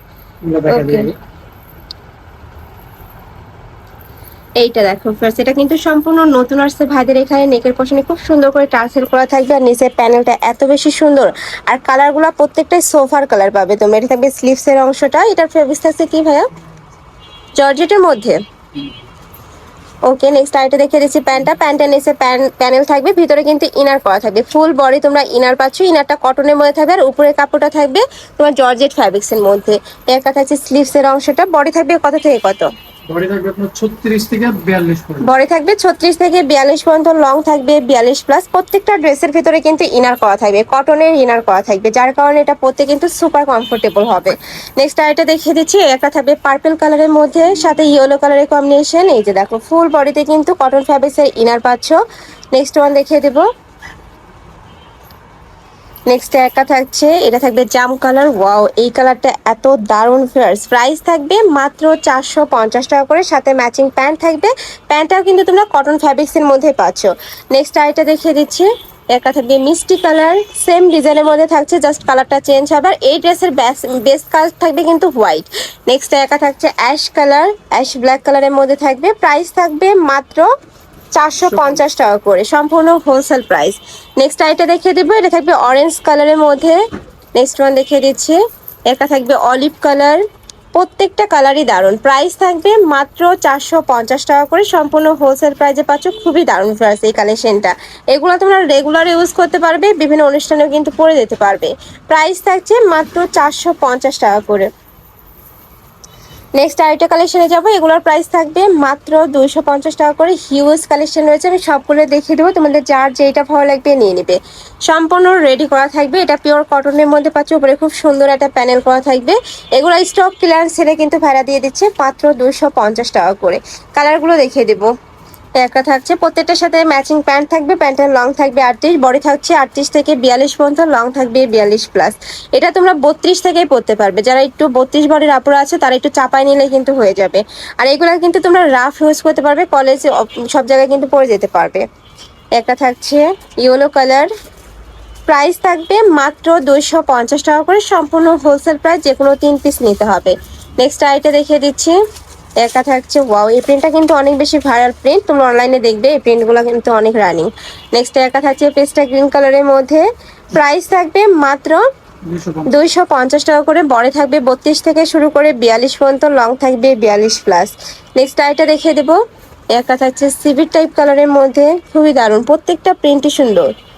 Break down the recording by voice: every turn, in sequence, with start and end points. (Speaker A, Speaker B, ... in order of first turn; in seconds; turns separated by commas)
Speaker A: 0.5-1.1, Speaker B: 0.7-1.1, Speaker B: 4.6-16.5, Speaker B: 17.6-18.4, Speaker B: 20.1-32.7, Speaker A: 33.1-35.3, Speaker B: 35.2-52.0, Speaker B: 52.5-53.5, Speaker B: 56.1-80.5, Speaker B: 81.1-86.8, Speaker A: 81.5-81.8, Speaker B: 87.4-90.2, Speaker B: 90.8-104.7, Speaker B: 106.6-124.9, Speaker B: 125.6-141.8, Speaker B: 142.6-144.3, Speaker B: 145.3-152.0, Speaker B: 152.6-161.8, Speaker A: 162.3-162.7, Speaker B: 162.7-169.2, Speaker B: 169.8-173.7